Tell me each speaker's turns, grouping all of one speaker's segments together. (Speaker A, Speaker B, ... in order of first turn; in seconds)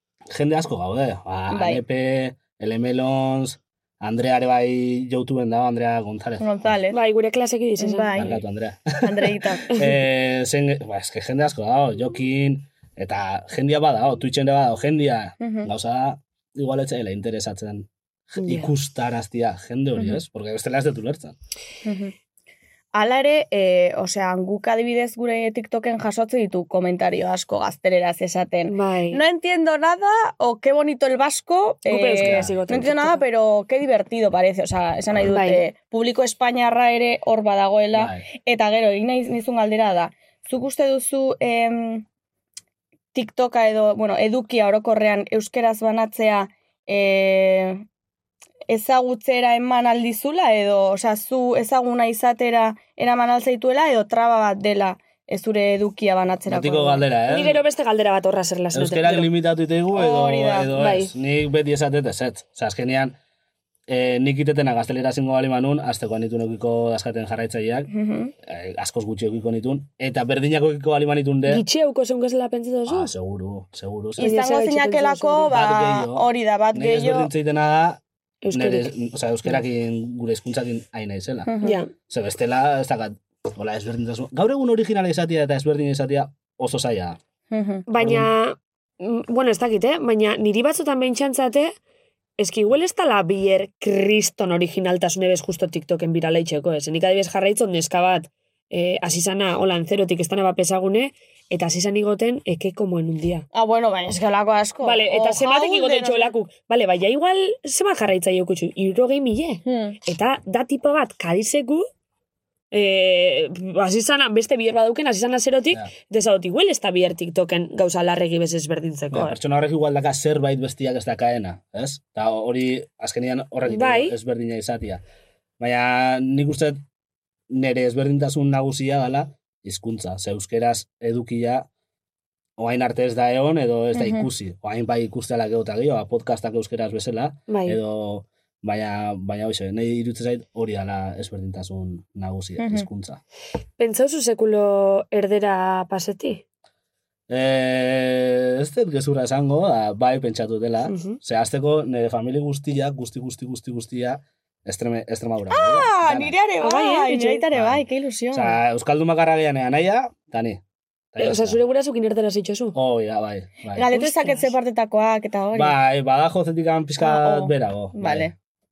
Speaker A: 0.3-6.7, 8.2-21.4, 32.2-32.5, 37.9-38.2, 56.5-57.6, 58.7-63.2, 63.9-67.9, 68.4-71.6, 72.9-74.3, 75.5-78.0, 78.5-81.5, 82.1-87.2, 88.0-88.3, 119.1-125.0, 125.6-126.8, 127.5-131.7, 132.6-143.2, 147.3-156.3, 157.5-160.6, 161.1-161.6, 162.7-163.9, 165.5-168.3
Speaker B: 1.5-1.8, 6.4-7.0, 7.8-8.3, 9.0-9.7, 15.4-15.7, 21.8-22.1, 22.9-42.0, 43.1-47.8, 48.7-57.0, 59.9-60.7, 67.9-68.3, 74.2-77.3, 81.5-81.8, 87.5-87.8, 103.5-106.3, 109.6-110.0, 133.9-134.3, 142.6-142.9, 155.5-158.6, 163.7-165.8, 167.0-168.3
Speaker C: 6.9-8.3, 18.4-18.7, 28.7-29.2, 31.9-33.2, 35.2-35.6, 57.3-59.3, 60.7-61.1, 71.5-73.1, 74.2-75.5, 78.4-78.9, 81.6-81.9, 87.9-91.7, 92.4-103.4, 104.8-111.9, 112.7-119.3, 123.7-124.2, 137.5-137.8, 143.8-146.4, 150.8-151.2, 156.6-157.4, 161.2-162.8, 163.9-164.5